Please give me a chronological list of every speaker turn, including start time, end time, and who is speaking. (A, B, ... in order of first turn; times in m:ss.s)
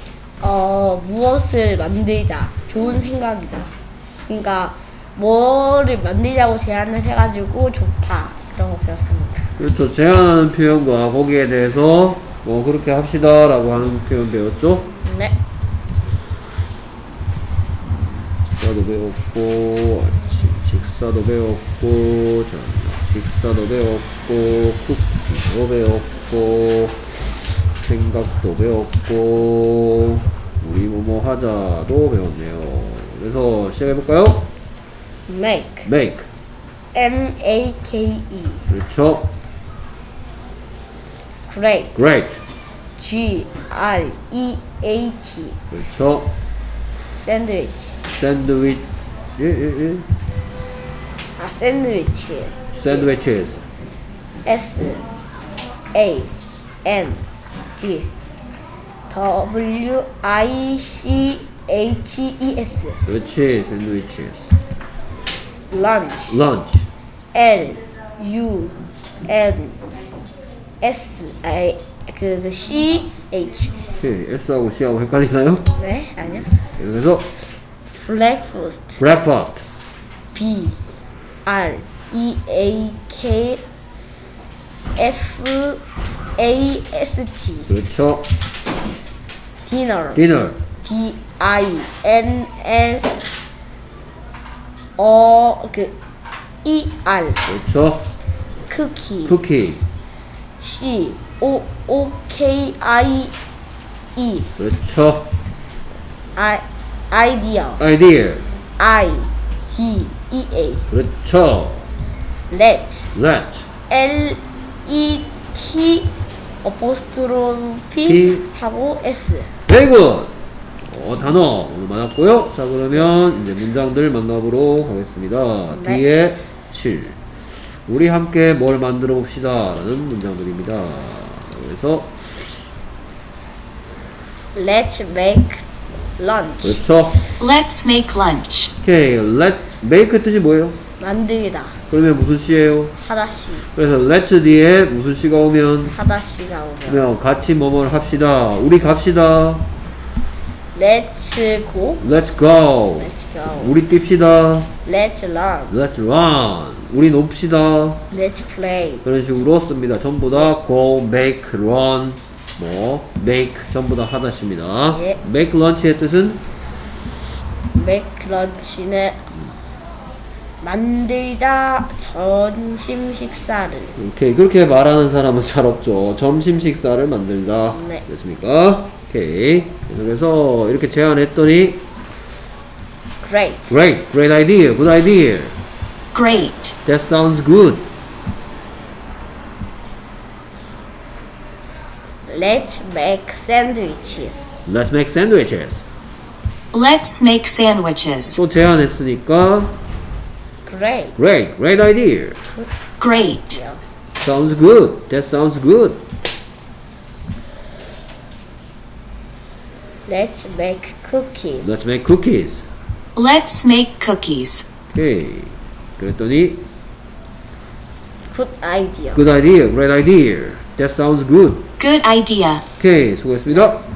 0:00.4-0:03.7 A
0:04.3-0:09.6 A
0:09.6-0:14.9 B
0:15.0-0:15.4 A
0:18.1-0:34.5 B
0:35.3-0:35.9 A
0:35.9-0:36.3 B
0:36.9-0:38.7 A
0:38.7-0:39.3 B
0:41.5-0:41.9 A
0:42.0-0:42.4 B
0:43.0-0:45.6 A
0:45.7-0:46.3 B
0:47.2-0:48.0 A
0:48.1-0:48.8 B
0:49.4-0:50.1 B
0:51.4-0:53.2 A
0:52.7-0:53.7 B
0:54.4-0:55.0 A
0:55.9-0:56.3 A
0:56.8-0:57.2 A
0:57.8-0:58.1 A
0:59.1-1:03.0 A
1:03.0-1:04.6 B
1:05.7-1:06.4 A
1:06.3-1:06.9 B
1:07.3-1:09.8 A
1:10.8-1:13.8 A
1:14.0-1:15.7 B
1:15.7-1:16.5 A
1:16.8-1:17.3 B
1:17.9-1:19.0 A
1:19.0-1:19.6 B
1:20.3-1:20.8 A
1:21.5-1:23.6 A
1:25.0-1:25.8 A
1:26.4-1:27.7 A
1:27.7-1:28.3 B
1:29.6-1:30.2 A
1:30.2-1:30.6 B
1:30.8-1:33.1 A
1:35.0-1:35.9 A
1:36.6-1:37.4 A
1:37.5-1:38.1 B
1:38.7-1:39.7 A
1:39.2-1:39.8 B
1:40.6-1:43.4 A
1:44.2-1:44.5 A
1:44.6-1:45.3 B
1:46.4-1:47.8 A
1:47.8-1:48.4 B
1:48.8-1:50.9 A
1:50.9-1:51.9 B
1:52.5-1:53.1 A
1:53.1-1:53.7 B
1:53.9-1:56.1 A
1:56.6-1:59.5 A
1:58.0-1:58.4 B
1:59.7-2:00.3 B
2:00.8-2:07.2 B
2:05.7-2:06.0 A
2:07.9-2:12.5 B
2:14.6-2:15.7 A
2:16.2-2:16.8 A
2:16.6-2:17.2 B
2:17.4-2:18.7 C
2:18.8-2:20.8 B
2:21.0-2:21.8 A
2:21.9-2:22.9 B
2:23.0-2:23.7 A
2:23.7-2:26.0 B
2:25.9-2:27.1 A
2:26.9-2:29.7 B
2:30.7-2:32.0 A
2:32.0-2:34.7 B
2:33.0-2:33.8 A
2:34.8-2:35.7 A
2:35.7-2:38.0 B
2:38.1-2:39.1 A
2:39.0-2:46.4 B
2:44.9-2:45.2 A
2:47.8-2:49.3 A
2:50.6-2:54.0 A
2:54.0-3:01.8 B
2:57.7-2:58.0 A
3:03.2-3:03.8 A
3:03.7-3:05.6 B
3:06.1-3:06.8 C
3:06.8-3:07.9 B
3:12.3-3:14.6 A
3:14.7-3:15.9 B
3:16.7-3:18.4 C
3:18.3-3:19.8 B
3:20.6-3:21.2 A
3:21.2-3:22.4 B
3:22.6-3:23.8 A
3:23.0-3:23.6 C
3:24.2-3:26.0 B
3:30.1-3:31.7 A
3:31.6-3:32.7 B
3:33.2-3:34.7 C
3:34.9-3:36.6 B
3:38.3-3:39.2 A
3:39.1-3:41.6 B
3:41.8-3:42.6 C
3:42.8-3:43.8 B